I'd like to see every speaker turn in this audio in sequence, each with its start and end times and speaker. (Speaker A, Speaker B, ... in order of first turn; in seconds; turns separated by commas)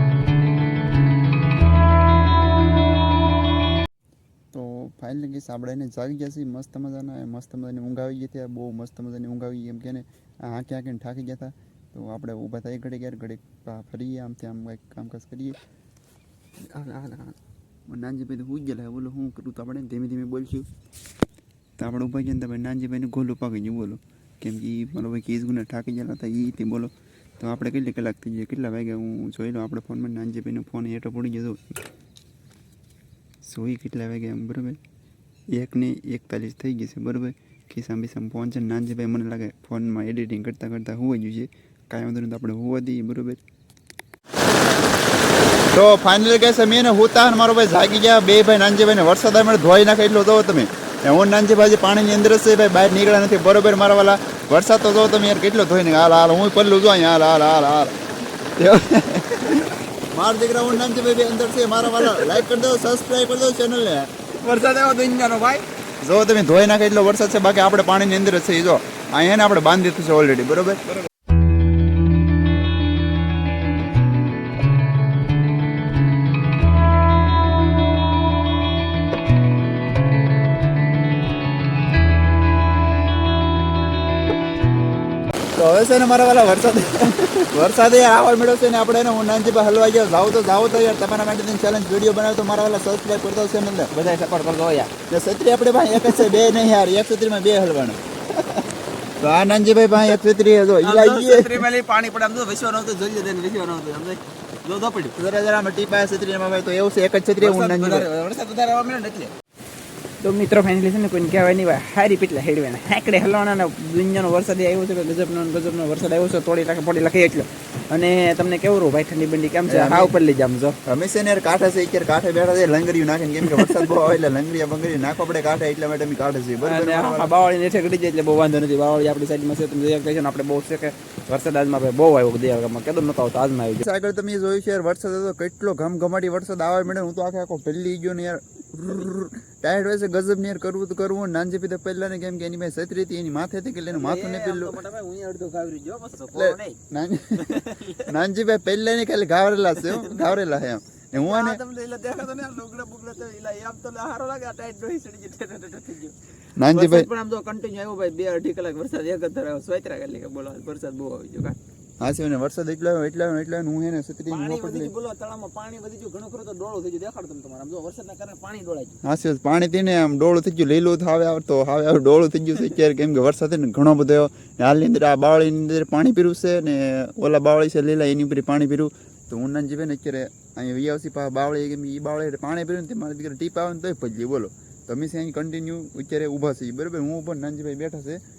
Speaker A: 4.5-15.6, Speaker A: 16.6-20.7, Speaker A: 21.8-31.8, Speaker A: 33.4-34.8, Speaker A: 35.5-43.4, Speaker A: 45.7-58.0, Speaker A: 58.6-64.1, Speaker B: 62.0-62.4, Speaker B: 64.4-65.7, Speaker A: 66.0-70.8, Speaker A: 85.5-93.9, Speaker B: 93.9-94.9, Speaker A: 95.1-98.0, Speaker A: 99.2-101.6, Speaker B: 100.8-105.1, Speaker A: 105.2-108.1, Speaker B: 107.4-109.3, Speaker B: 110.2-120.8, Speaker A: 119.7-120.1, Speaker A: 120.8-127.3, Speaker B: 123.5-123.8, Speaker B: 126.6-133.8, Speaker A: 133.8-144.7, Speaker B: 143.9-146.8, Speaker A: 146.3-151.6, Speaker B: 147.3-148.1, Speaker B: 149.8-150.3, Speaker B: 151.1-156.1, Speaker A: 156.6-157.1, Speaker B: 156.7-161.6, Speaker A: 162.0-164.9, Speaker B: 164.3-169.0, Speaker A: 169.0-188.2